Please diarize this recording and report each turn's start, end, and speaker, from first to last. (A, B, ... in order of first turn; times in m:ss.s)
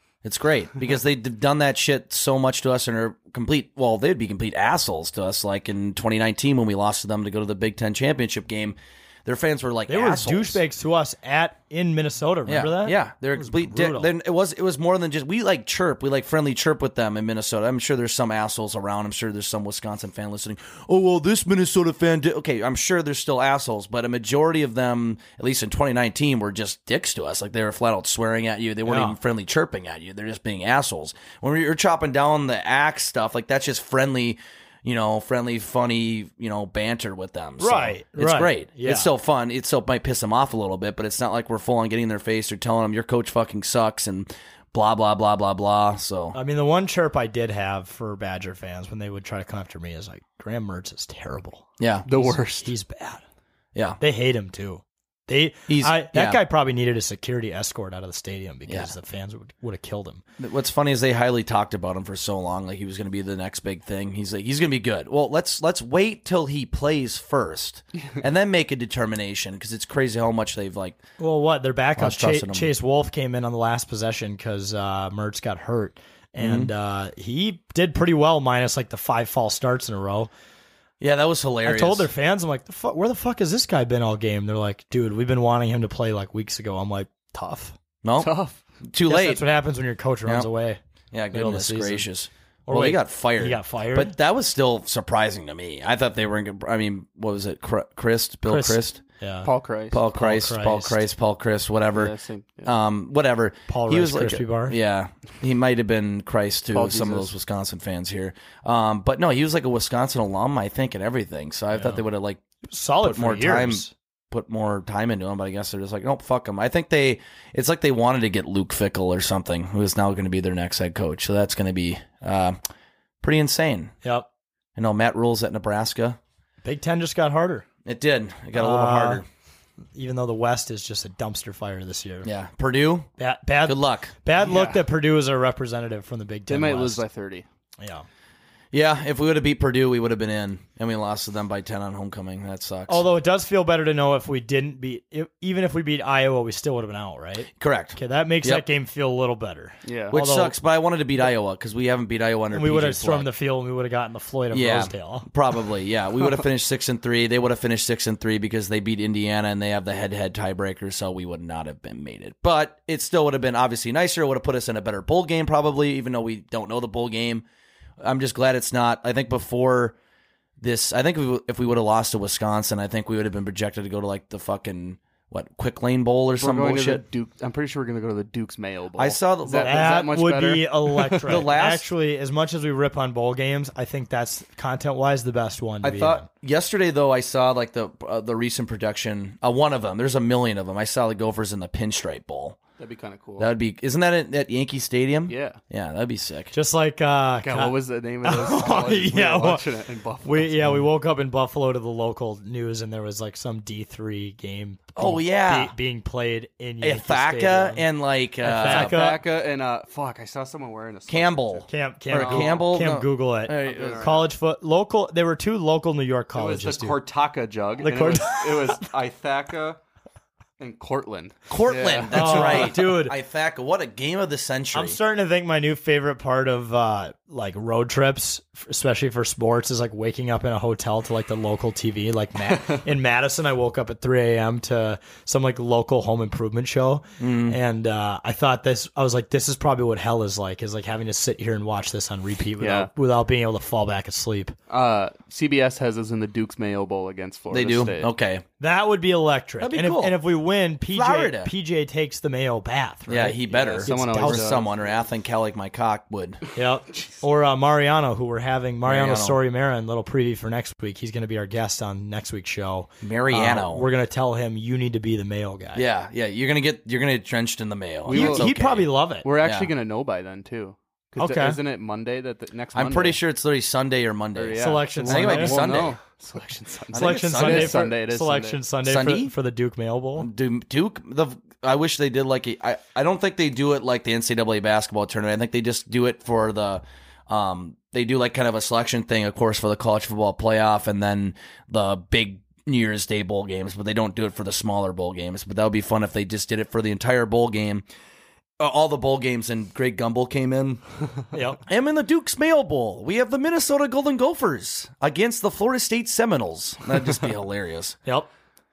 0:00.2-0:10.6 A
0:09.9-0:14.1 B
0:12.5-0:46.4 A
0:28.9-0:29.2 B
0:37.6-0:39.1 B
0:46.3-0:53.2 B
0:51.8-0:52.1 A
0:52.1-0:52.7 C
0:53.8-0:54.0 A
0:54.0-1:00.2 B
0:55.7-0:56.4 A
1:00.4-1:11.0 A
1:11.2-1:20.3 B
1:12.0-1:12.7 A
1:16.4-1:16.7 A
1:21.0-1:22.1 A
1:21.6-1:27.8 B
1:28.0-1:28.3 A
1:28.2-1:28.6 C
1:28.8-1:29.4 A
1:29.1-1:30.8 B
1:31.1-1:39.0 A
1:31.3-1:32.1 B
1:32.7-1:34.2 B
1:38.5-1:39.5 B
1:39.4-1:40.0 C
1:39.9-1:42.1 A
1:40.1-1:41.0 B
1:41.9-1:42.7 C
1:42.6-1:52.4 A
1:43.7-1:44.8 B
1:46.7-1:47.3 C
1:51.7-1:52.0 B
1:52.7-1:53.9 B
1:53.0-2:02.6 A
2:03.2-2:03.9 A
2:04.8-2:06.2 A
2:06.6-2:07.7 B
2:07.8-2:09.2 A
2:08.6-2:09.2 B
2:10.0-2:12.3 B
2:12.2-2:13.1 A
2:13.2-2:17.0 B
2:13.6-2:14.1 A
2:14.4-2:14.8 C
2:16.5-2:17.5 C
2:17.8-2:18.1 B
2:18.7-2:23.0 A
2:22.9-2:30.6 B
2:27.6-2:28.6 A
2:29.9-2:30.2 C
2:30.1-2:33.3 A
2:32.5-2:35.3 B
2:34.5-2:47.4 A
2:48.0-2:50.0 A
2:50.6-2:57.0 A
2:56.4-3:01.5 C
2:59.0-2:59.8 A
2:59.6-3:06.3 B
3:01.3-3:01.9 A
3:05.8-3:12.6 A
3:12.8-3:13.5 C
3:13.4-3:16.6 A
3:15.3-3:15.6 C
3:16.5-3:19.6 B
3:17.4-3:20.7 C
3:20.2-3:27.8 B
3:25.0-3:25.7 A
3:26.8-3:29.0 A
3:28.4-3:29.2 B
3:28.6-3:32.6 C
3:31.1-3:34.0 A
3:31.7-3:37.0 B
3:33.6-3:34.3 C
3:36.3-3:39.8 C
3:37.8-3:38.8 B
3:40.6-3:42.7 C
3:41.5-3:45.0 A
3:42.1-3:43.2 B
3:44.7-4:04.6 B
3:57.2-3:57.6 A
4:02.6-4:02.9 C
4:04.7-4:08.1 C
4:07.5-4:08.4 A
4:08.6-4:14.6 B
4:09.6-4:10.2 A
4:10.9-4:11.5 A
4:13.1-4:16.4 A
4:13.4-4:14.7 C
4:16.5-4:25.8 B
4:18.8-4:19.4 A
4:23.0-4:23.8 A
4:25.7-4:29.7 A
4:28.1-4:29.3 B
4:28.1-4:28.5 C
4:29.2-4:33.2 C
4:31.2-4:31.6 B
4:32.8-4:36.0 A
4:34.4-4:38.6 C
4:34.6-4:35.9 B
4:36.9-4:37.8 A
4:37.0-4:40.3 B
4:38.8-4:39.3 A
4:40.2-4:57.8 A
4:58.6-5:00.8 A
5:01.3-5:01.6 B
5:01.7-5:08.0 A